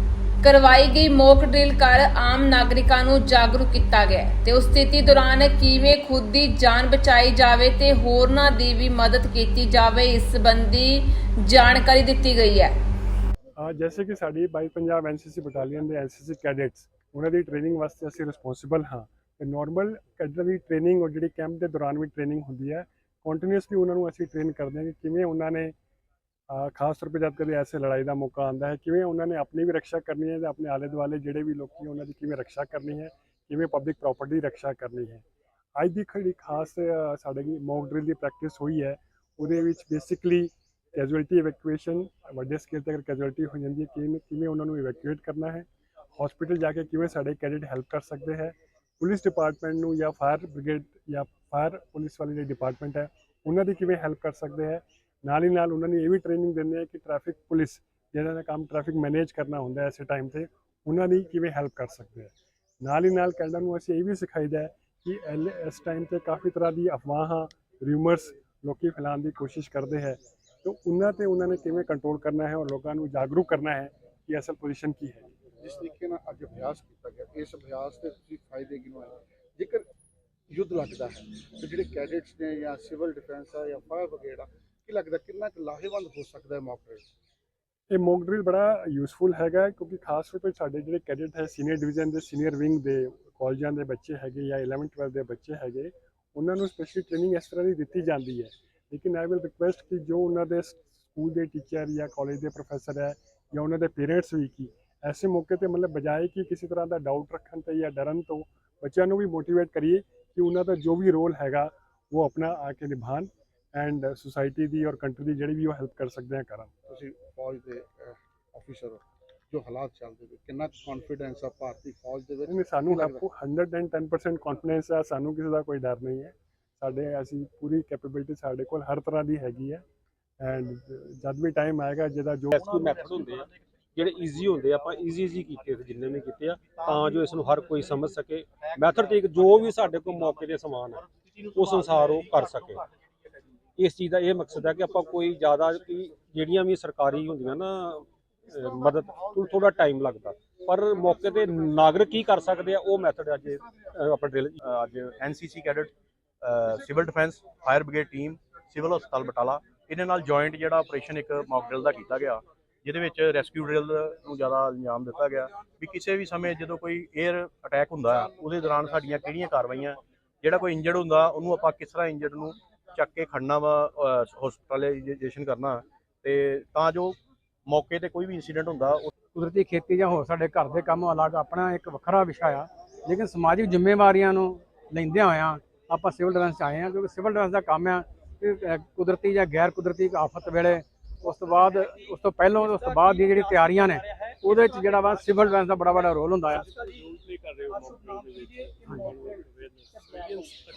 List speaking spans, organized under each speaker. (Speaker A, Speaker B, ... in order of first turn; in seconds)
Speaker A: 0.4-12.7
Speaker B: 13.6-25.7, 26.5-35.2, 35.8-75.3, 87.9-116.7, 122.5-129.8, 130.4-132.6
Speaker C: 75.6-79.8, 80.5-87.0, 116.9-123.2
Speaker D: 132.5-142.8, 143.8-154.6, 197.1-198.5
Speaker E: 154.6-179.1
Speaker F: 179.3-196.8, 198.9-199.2